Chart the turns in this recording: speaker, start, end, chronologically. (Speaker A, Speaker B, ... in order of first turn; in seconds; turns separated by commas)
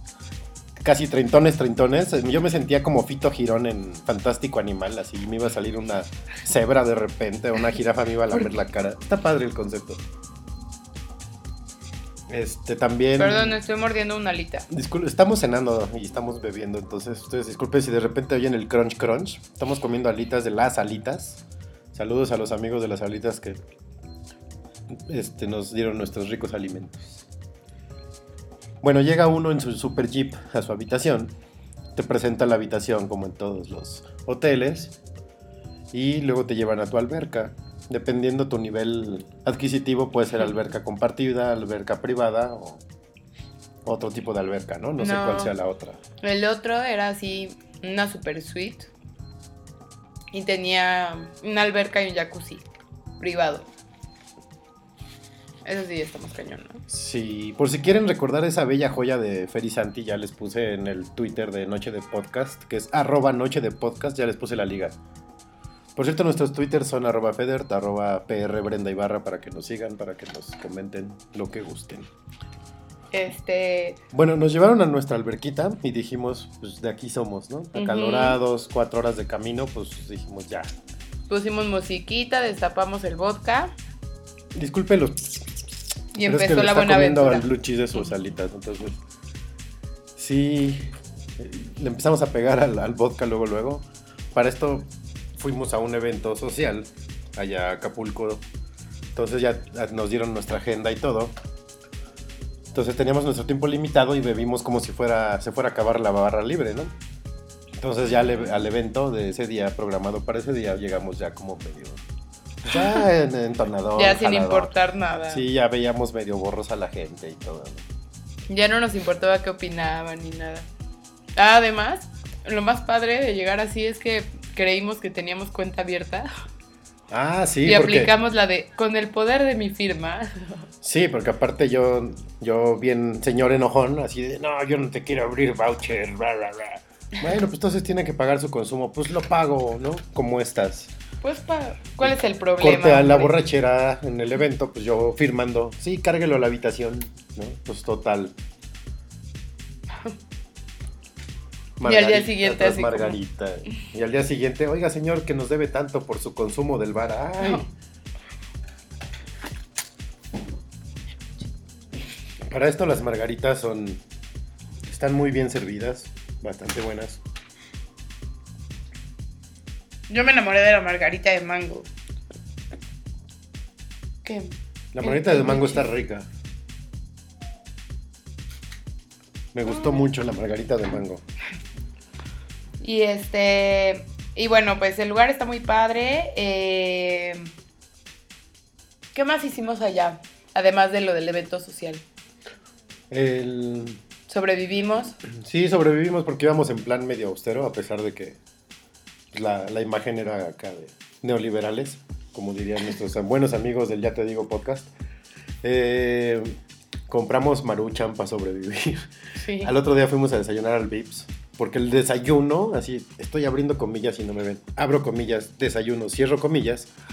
Speaker A: 0.8-10.0, Speaker A: 12.3-13.6, Speaker B: 13.2-14.7, Speaker A: 14.7-21.4, Speaker A: 21.9-23.6, Speaker A: 24.9-27.2, Speaker A: 28.8-31.3, Speaker A: 31.9-35.0, Speaker A: 35.9-42.8, Speaker A: 43.8-46.0, Speaker B: 45.0-45.5, Speaker B: 46.2-48.9, Speaker B: 50.3-52.7, Speaker B: 53.2-53.7, Speaker B: 55.6-56.8, Speaker A: 56.9-65.0, Speaker A: 66.0-72.1, Speaker B: 73.1-74.0, Speaker A: 74.1-80.7, Speaker B: 77.7-78.4, Speaker B: 81.3-83.7, Speaker A: 84.5-89.0, Speaker B: 86.1-87.5, Speaker A: 90.2-98.4, Speaker A: 99.1-101.3, Speaker A: 102.7-106.9, Speaker A: 107.8-112.0, Speaker A: 112.6-114.7, Speaker B: 113.9-115.4, Speaker A: 115.3-117.8, Speaker B: 118.5-120.7, Speaker B: 121.3-126.3, Speaker A: 127.1-128.1, Speaker B: 127.6-130.6, Speaker A: 130.8-140.9, Speaker B: 141.2-143.4, Speaker A: 142.0-148.3, Speaker A: 151.8-157.7, Speaker B: 151.8-153.2, Speaker B: 157.4-157.7, Speaker A: 162.4-164.0, Speaker A: 164.8-167.2, Speaker B: 170.1-171.8, Speaker B: 174.2-175.9, Speaker A: 174.9-176.3, Speaker A: 179.5-181.2, Speaker B: 179.7-180.1, Speaker B: 182.8-187.5, Speaker B: 189.1-192.0, Speaker A: 193.1-194.0, Speaker B: 194.3-195.2, Speaker A: 195.2-198.4, Speaker A: 199.3-204.9, Speaker A: 205.6-206.6, Speaker A: 207.1-216.9, Speaker B: 209.3-209.7